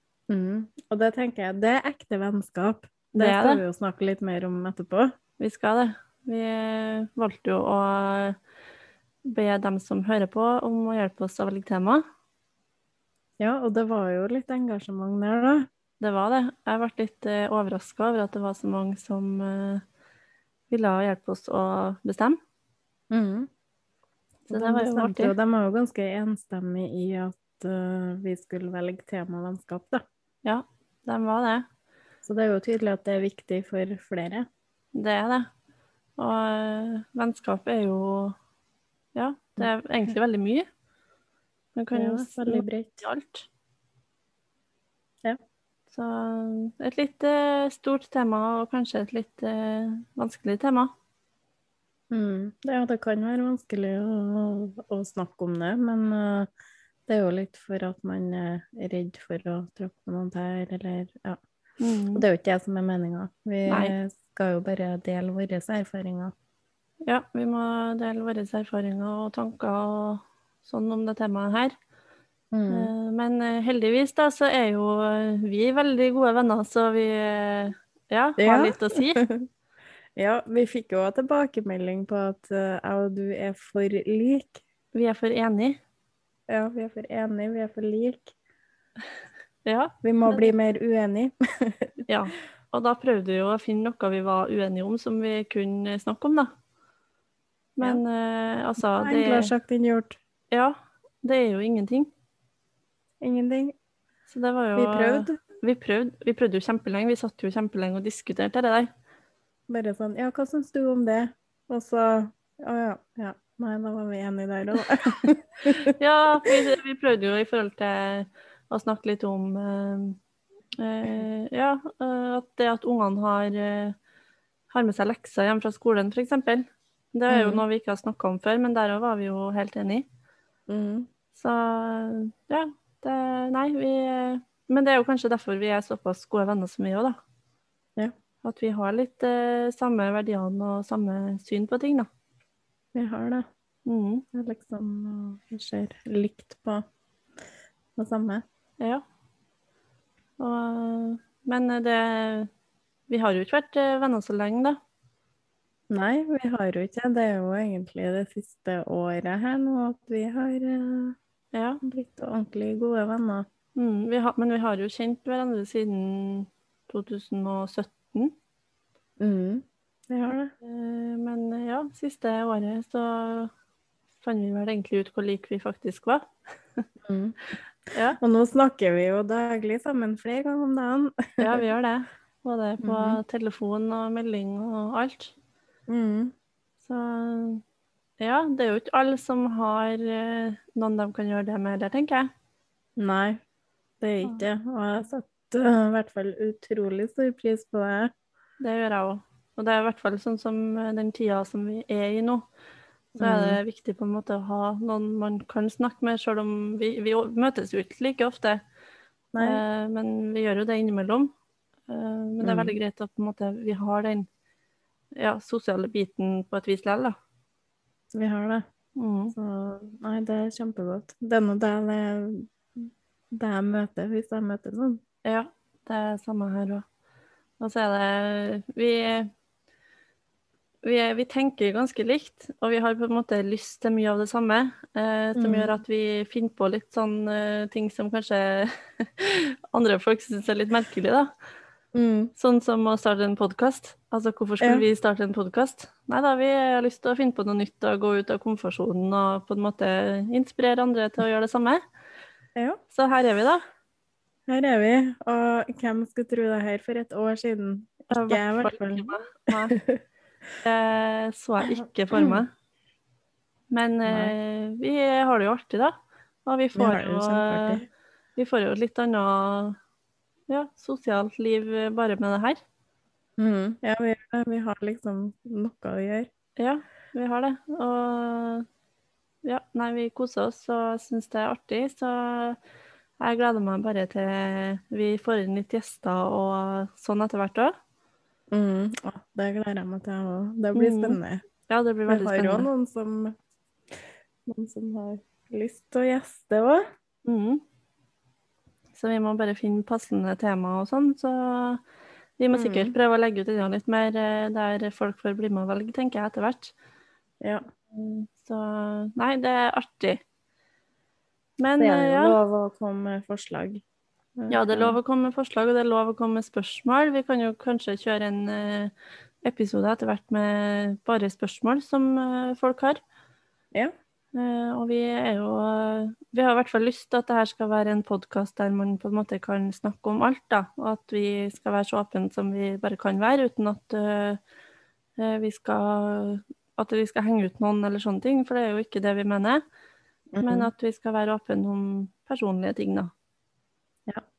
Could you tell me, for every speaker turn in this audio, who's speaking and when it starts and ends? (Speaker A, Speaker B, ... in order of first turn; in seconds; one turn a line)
Speaker A: 0.3-5.1
Speaker B: 3.1-3.6
Speaker B: 5.4-8.4
Speaker B: 9.2-12.0
Speaker A: 13.4-15.7
Speaker B: 16.0-19.8
Speaker B: 20.7-22.4
Speaker A: 23.1-23.5
Speaker B: 24.5-25.3
Speaker A: 24.5-30.0
Speaker B: 30.4-31.6
Speaker A: 32.2-34.5
Speaker B: 34.9-35.5
Speaker B: 36.2-38.4
Speaker B: 39.1-40.6
Speaker B: 41.7-43.5
Speaker A: 41.9-43.1
Speaker B: 45.9-50.9
Speaker A: 52.1-56.5
Speaker A: 57.1-61.4
Speaker B: 61.8-62.2
Speaker A: 62.1-66.3
Speaker B: 63.7-63.9
Speaker B: 67.0-71.7
Speaker A: 72.5-72.9
Speaker B: 72.7-79.2
Speaker A: 78.4-79.4
Speaker A: 80.2-84.6
Speaker B: 84.9-85.8
Speaker A: 86.5-88.3
Speaker B: 89.6-90.5
Speaker A: 90.0-91.9
Speaker B: 92.1-96.5
Speaker B: 97.8-99.5
Speaker A: 98.8-100.2
Speaker B: 100.5-102.1
Speaker A: 103.2-103.7
Speaker B: 104.3-108.9
Speaker A: 104.8-105.3
Speaker A: 109.7-116.6
Speaker B: 115.9-120.2
Speaker B: 120.8-124.0
Speaker B: 124.7-130.1
Speaker A: 127.3-127.6
Speaker A: 130.7-131.1
Speaker B: 131.3-137.2
Speaker B: 138.4-142.1
Speaker A: 142.9-143.4
Speaker B: 143.8-144.2
Speaker A: 144.3-146.8
Speaker A: 148.0-148.4
Speaker B: 150.4-152.5
Speaker B: 153.1-154.8
Speaker A: 155.9-161.2
Speaker B: 161.5-161.8
Speaker A: 161.8-163.4
Speaker B: 163.7-168.3
Speaker A: 169.2-170.5
Speaker B: 170.6-173.5
Speaker B: 174.2-176.8
Speaker A: 177.0-177.4
Speaker B: 177.9-178.2
Speaker A: 178.2-181.6
Speaker B: 181.4-185.3
Speaker A: 182.8-183.2
Speaker A: 185.9-186.3
Speaker B: 186.8-187.6
Speaker B: 188.2-192.3
Speaker A: 193.0-193.4
Speaker A: 194.0-198.1
Speaker B: 198.6-202.4
Speaker A: 203.2-203.6
Speaker B: 203.2-208.6
Speaker A: 209.3-209.6
Speaker B: 209.4-211.3
Speaker B: 211.9-214.3
Speaker A: 212.4-212.8
Speaker B: 215.1-217.1
Speaker A: 218.1-218.6
Speaker B: 219.0-219.3
Speaker A: 219.3-225.0
Speaker B: 225.2-226.8
Speaker B: 227.6-229.3
Speaker B: 230.8-241.3
Speaker A: 235.4-235.7
Speaker A: 241.9-242.3
Speaker B: 242.4-251.8
Speaker A: 244.6-244.9
Speaker B: 252.9-253.6
Speaker A: 254.5-260.0
Speaker B: 258.1-259.8
Speaker B: 260.6-262.5
Speaker A: 262.1-262.4
Speaker B: 263.7-265.9
Speaker A: 264.1-264.3
Speaker B: 266.4-267.8
Speaker A: 266.7-267.9
Speaker B: 268.4-269.8
Speaker B: 270.5-272.6
Speaker A: 273.4-276.3
Speaker B: 276.6-278.6
Speaker B: 279.4-282.6
Speaker B: 283.2-287.7
Speaker A: 288.5-291.4
Speaker B: 290.7-292.7
Speaker A: 292.1-293.3
Speaker A: 294.4-296.8
Speaker B: 297.2-297.6
Speaker B: 298.9-301.8
Speaker B: 302.4-306.7
Speaker A: 302.5-302.9
Speaker A: 307.4-307.6
Speaker B: 307.9-310.2
Speaker B: 311.6-312.4
Speaker A: 311.8-313.8
Speaker A: 314.4-315.0
Speaker B: 314.5-323.0
Speaker B: 324.3-334.4
Speaker B: 335.2-339.6
Speaker A: 340.3-340.7
Speaker B: 340.4-343.1